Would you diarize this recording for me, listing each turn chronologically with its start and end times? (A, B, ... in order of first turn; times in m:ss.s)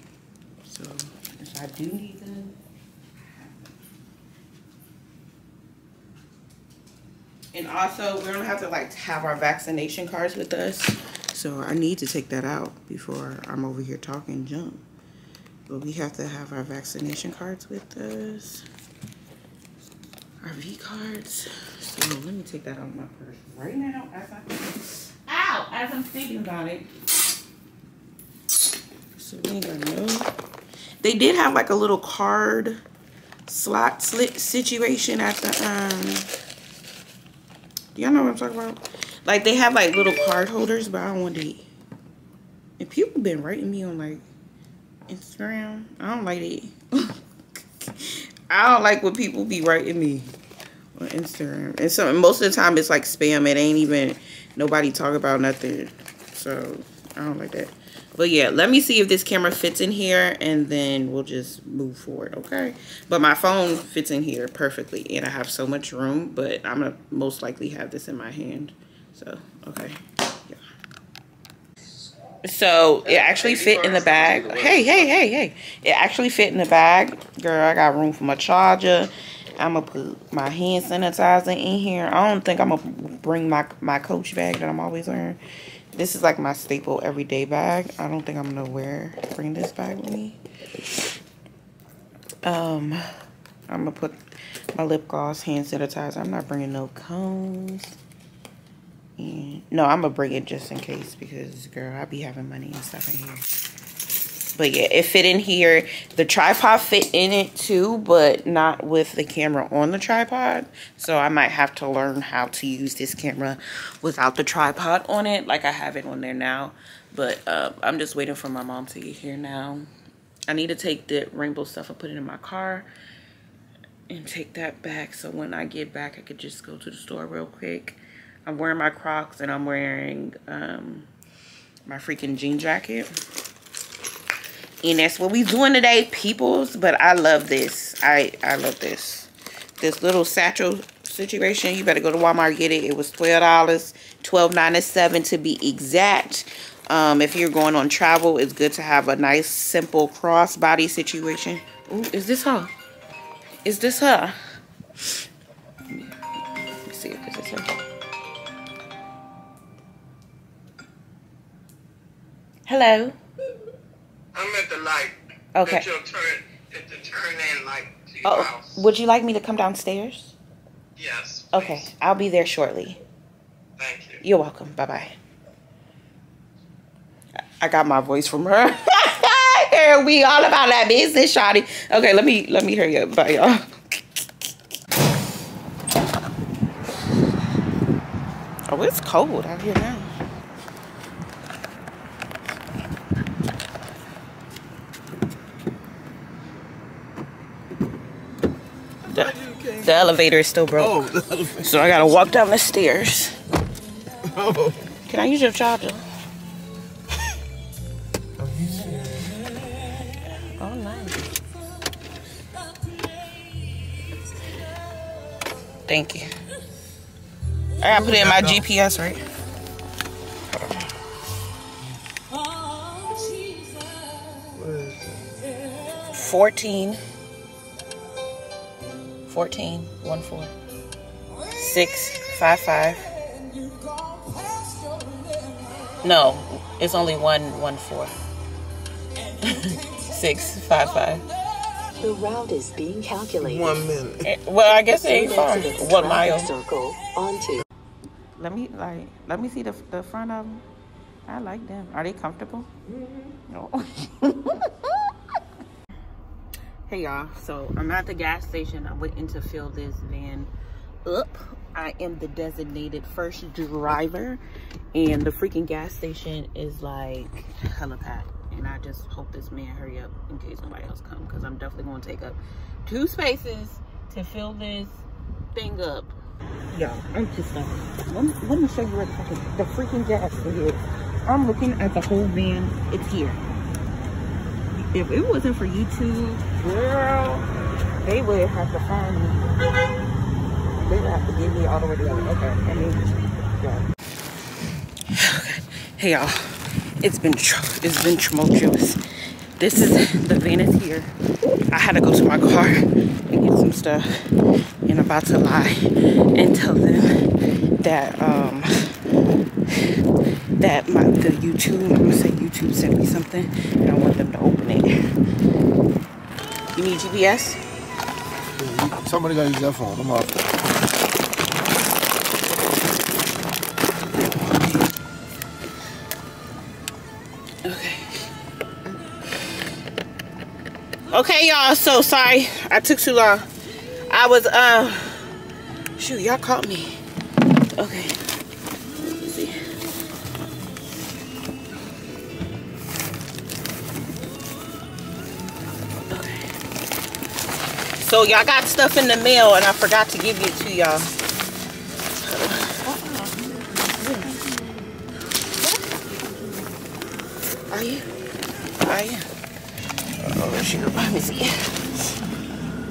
0:00.6-0:02.6 A
0:03.2-0:03.7 A
0:07.5-0:14.8 A
0:15.7-0:18.6 A
0:20.4-0:26.8 A
0:29.1-0:30.3 A
0:31.0-0:32.8 A
0:33.5-0:36.3 A
0:37.9-0:41.7 A
0:42.8-0:44.2 A
0:45.1-0:47.2 A
0:48.0-0:50.3 A
0:51.0-1:10.6 A
1:12.4-1:25.4 A
1:25.9-1:30.4 A
1:32.4-1:33.0 A
1:33.7-1:34.2 A
1:34.7-1:38.0 A
1:39.2-1:43.5 A
1:44.5-1:59.9 A
2:00.5-2:02.9 A
2:04.1-2:11.1 A
2:11.8-2:13.1 A
2:14.8-2:32.7 A
2:33.6-2:34.4 A
2:36.8-2:37.7 A
2:42.7-2:43.2 A
2:44.3-2:48.8 B
2:45.5-2:45.8 A
2:48.2-2:50.3 A
2:51.0-2:51.9 B
2:51.5-2:53.0 A
2:53.8-2:54.2 B
2:54.2-2:55.2 A
2:57.6-3:03.7 A
3:08.7-3:10.1 A
3:19.1-3:23.3 A
3:19.2-3:19.9 C
3:20.8-3:21.7 C
3:24.4-3:24.8 C
3:25.1-3:26.0 A
3:28.4-3:29.0 C
3:30.4-3:31.3 A
3:35.8-3:36.3 A
3:37.8-3:39.2 A
3:40.5-3:40.9 A
3:44.6-3:45.0 C
3:46.1-3:47.0 A
3:49.3-3:50.5 A
3:51.6-3:53.1 A
3:56.0-3:58.1 A
3:59.4-4:01.2 A
4:02.0-4:03.9 D
4:04.2-4:06.5 A
4:04.9-4:07.6 D
4:08.4-4:10.6 A
4:11.3-4:12.7 A
4:13.5-4:14.7 A
4:16.9-4:20.5 A
4:21.0-4:24.4 A
4:24.9-4:36.2 A
4:36.7-4:43.4 A
4:44.7-4:47.5 A
4:48.0-4:49.5 A
4:50.8-4:53.0 A
4:55.1-4:59.0 A
4:59.6-5:01.1 A
5:01.7-5:04.1 A
5:04.8-5:05.8 A
5:06.3-5:07.2 A
5:07.8-5:08.9 A
5:10.6-5:14.9 A
5:16.7-5:17.6 A
5:18.6-5:20.3 C
5:27.6-5:28.3 A
5:31.1-5:33.5 A
5:34.1-5:35.3 A
5:36.0-5:37.0 A
5:37.8-5:38.2 A
5:39.0-5:39.6 A
5:46.1-5:46.4 A
5:48.0-5:51.1 A
5:52.2-5:53.3 A
5:54.0-5:54.3 A
5:57.7-5:58.1 A
5:58.8-5:59.3 A
6:00.2-6:01.7 A